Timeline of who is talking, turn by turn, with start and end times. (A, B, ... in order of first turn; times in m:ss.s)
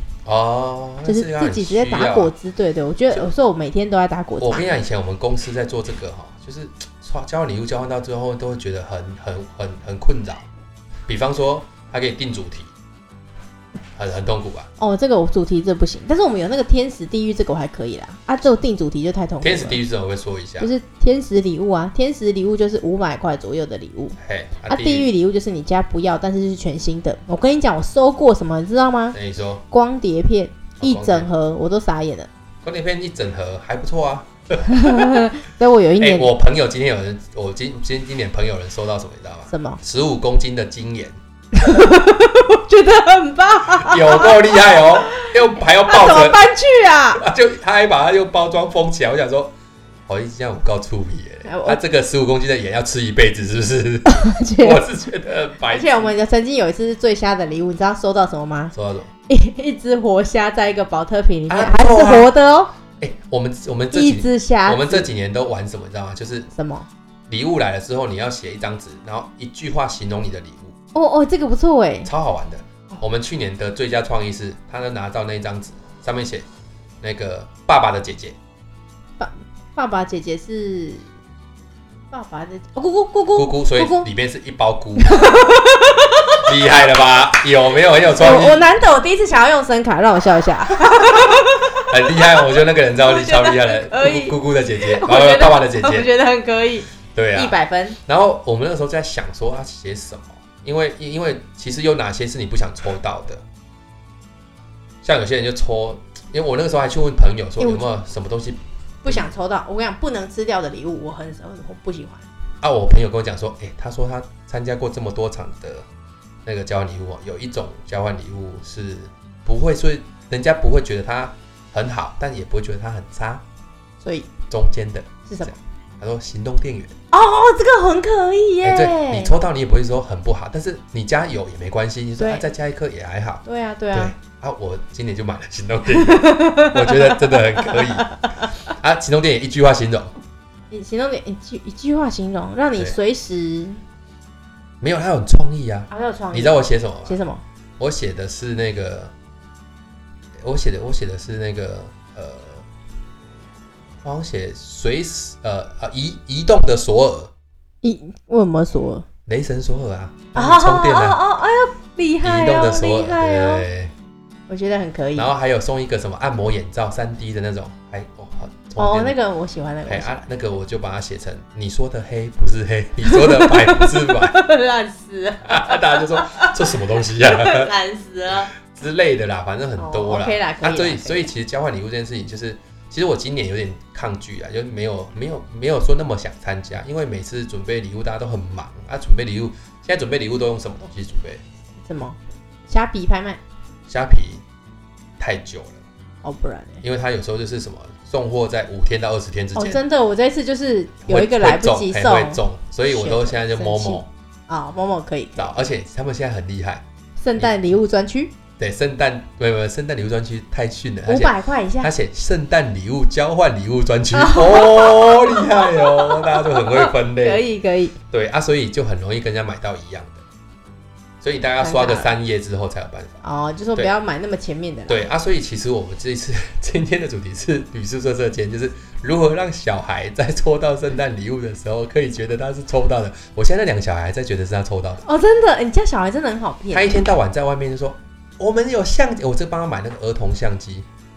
0:00.2-0:02.3 A
0:01.0-0:04.8 B
0:04.4-0:10.5 A
0:11.1-0:12.7 A
0:14.0-0:14.7 A
0:14.8-0:19.8 B
0:19.4-0:20.7 A
0:20.6-0:24.2 B
0:24.2-0:25.1 A
0:24.7-0:29.2 B
0:29.1-0:29.6 A
0:29.7-0:32.3 B
0:30.8-0:31.3 A
0:32.6-0:35.3 A
0:34.7-0:36.3 B
0:36.0-0:41.2 A
0:39.5-0:39.8 B
0:41.5-0:47.2 B
0:43.7-0:46.5 A
0:47.2-0:49.5 A
0:50.1-0:56.1 A
0:51.4-0:51.8 B
0:54.1-0:54.8 B
0:55.7-0:58.7 B
0:58.7-0:59.1 A
0:59.3-1:02.7 B
1:01.5-1:02.3 A
1:03.0-1:06.5 A
1:03.9-1:05.1 B
1:06.5-1:06.9 B
1:07.3-1:10.7 A
1:10.9-1:12.1 B
1:12.0-1:16.5 A
1:17.0-1:18.4 A
1:19.2-1:21.1 B
1:22.1-1:24.1 B
1:23.4-1:25.4 A
1:25.0-1:26.5 B
1:26.4-1:28.6 A
1:28.1-1:31.9 B
1:31.0-1:36.1 A
1:33.0-1:38.0 B
1:37.1-1:43.4 A
1:45.0-1:49.2 A
1:47.6-1:47.9 B
1:49.0-1:52.3 B
1:52.6-1:55.9 A
1:56.4-2:03.4 A
2:04.0-2:04.3 B
2:04.5-2:07.0 A
2:05.3-2:05.5 B
2:07.1-2:09.4 B
2:08.6-2:18.2 A
2:12.2-2:12.5 B
2:13.4-2:14.1 B
2:15.9-2:18.5 B
2:18.7-2:20.1 A
2:20.7-2:23.8 B
2:24.8-2:27.2 A
2:25.9-2:27.4 B
2:27.8-2:29.1 A
2:30.4-2:32.6 A
2:34.0-2:37.3 A
2:37.8-2:39.0 B
2:39.3-2:41.2 A
2:40.3-2:43.7 B
2:42.2-2:43.9 A
2:44.5-2:45.3 B
2:45.2-2:49.2 A
2:48.8-2:50.3 B
2:49.9-2:54.4 A
2:53.0-2:58.5 B
2:55.4-2:57.7 A
2:58.3-3:11.4 A
2:59.8-3:01.3 B
3:11.8-3:12.2 B
3:12.7-3:13.4 B
3:13.9-3:14.4 A
3:15.2-3:15.8 A
3:16.2-3:16.8 B
3:16.8-3:19.8 A
3:19.6-3:25.6 B
3:21.1-3:24.1 A
3:25.4-3:26.8 A
3:27.2-3:28.3 B
3:27.4-3:27.8 A
3:28.6-3:37.4 A
3:31.1-3:31.9 B
3:34.1-3:38.0 B
3:38.1-3:40.2 A
3:41.2-3:43.2 A
3:41.6-3:42.1 B
3:43.2-3:45.1 B
3:44.9-3:55.0 A
3:55.0-3:57.1 B
3:56.7-4:00.9 A